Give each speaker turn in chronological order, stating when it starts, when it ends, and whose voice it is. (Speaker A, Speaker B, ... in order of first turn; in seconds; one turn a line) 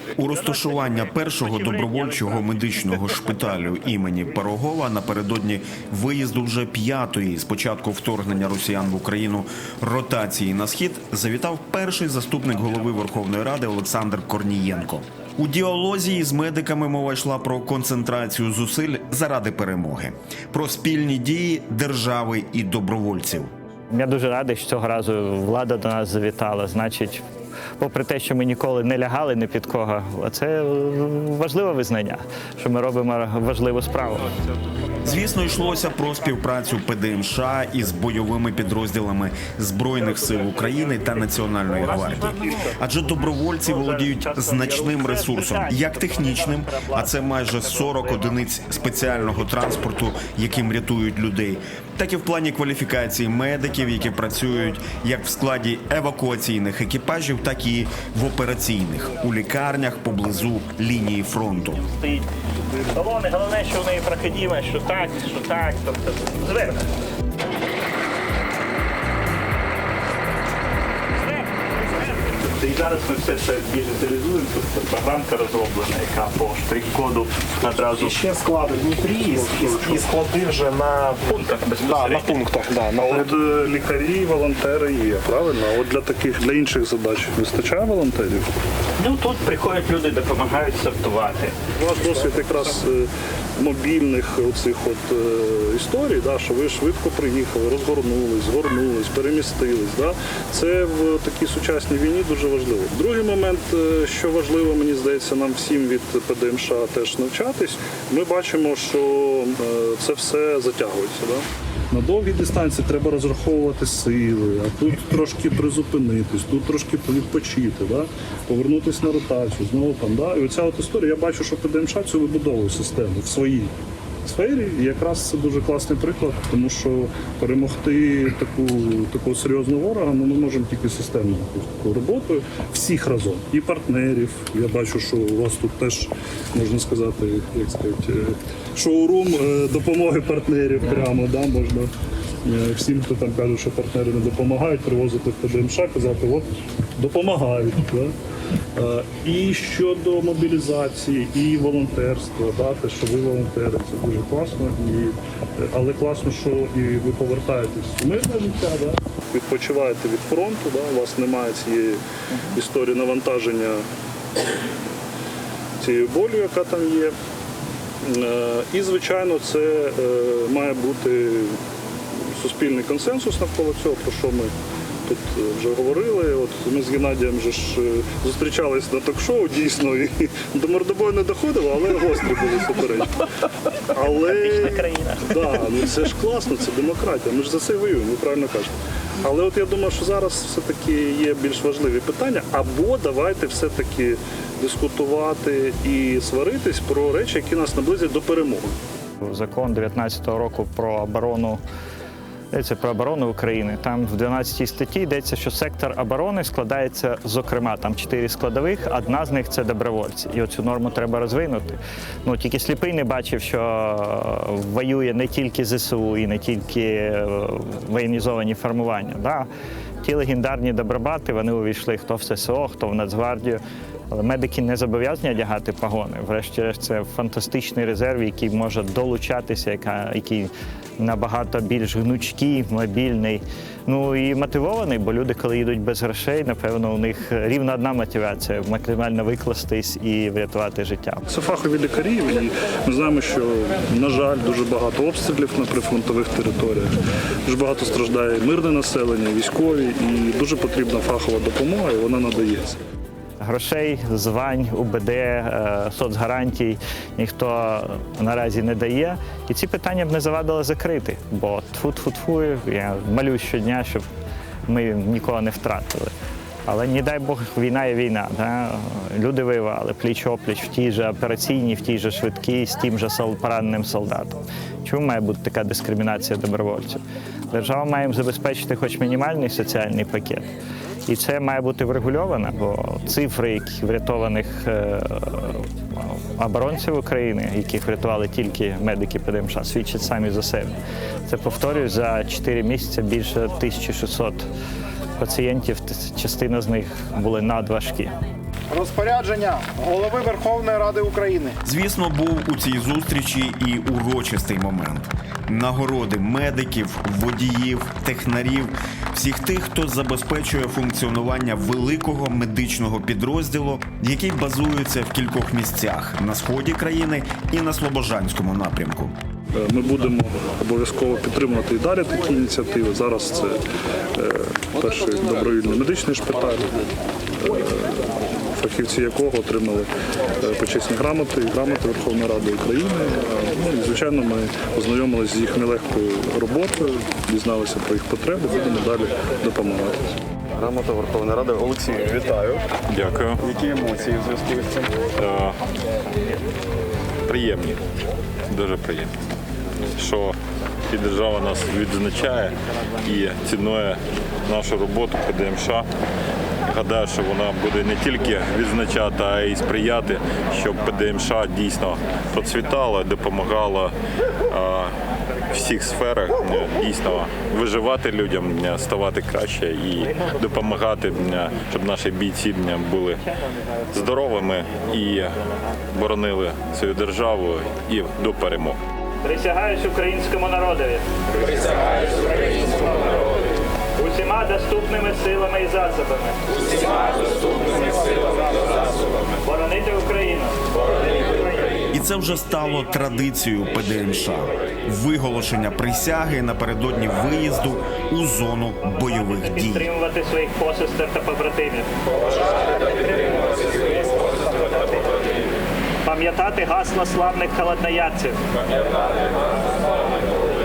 Speaker A: 0.2-3.2
Speaker B: 0.2-23.5
Speaker A: 23.9-27.2
Speaker A: 27.8-34.3
Speaker B: 35.0-61.8
Speaker A: 41.7-42.8
Speaker A: 43.5-48.4
Speaker A: 61.8-62.3
Speaker A: 62.8-66.8
Speaker A: 71.2-71.5
Speaker A: 72.2-78.3
Speaker C: 78.0-81.2
Speaker D: 79.6-80.0
Speaker A: 81.2-82.5
Speaker C: 81.8-83.3
Speaker D: 82.9-88.5
Speaker A: 89.0-91.5
Speaker D: 91.8-123.7
Speaker D: 124.2-141.9
Speaker D: 142.4-148.1
Speaker D: 148.8-163.8
Speaker D: 165.8-167.1
Speaker D: 168.0-171.6
Speaker D: 172.1-174.5
Speaker D: 175.1-183.3
Speaker D: 183.9-198.8
Speaker A: 184.2-185.4
Speaker A: 199.2-201.6
Speaker A: 202.5-219.5
Speaker A: 220.0-223.6
Speaker A: 224.1-241.3
Speaker D: 241.3-246.9
Speaker D: 247.4-252.8
Speaker A: 253.4-264.1
Speaker A: 264.7-266.1
Speaker A: 266.7-280.4
Speaker A: 281.1-294.5
Speaker A: 295.2-298.2
Speaker E: 298.7-301.6
Speaker B: 301.6-319.1
Speaker D: 319.5-323.6
Speaker D: 324.1-326.7
Speaker D: 327.4-340.0
Speaker F: 340.5-342.7
Speaker G: 342.9-343.4
Speaker F: 343.4-344.9
Speaker G: 345.2-345.6
Speaker G: 347.3-347.8
Speaker G: 348.5-349.1
Speaker G: 350.0-350.4
Speaker G: 350.9-355.9
Speaker G: 356.7-363.9
Speaker G: 364.5-364.9
Speaker G: 365.5-373.3
Speaker G: 373.9-375.4
Speaker G: 375.9-378.8
Speaker A: 379.2-381.1
Speaker A: 382.2-383.0
Speaker A: 384.0-386.6
Speaker A: 387.6-388.1
Speaker A: 389.4-391.9
Speaker B: 391.9-399.9
Speaker A: 398.8-401.9
Speaker A: 406.0-408.4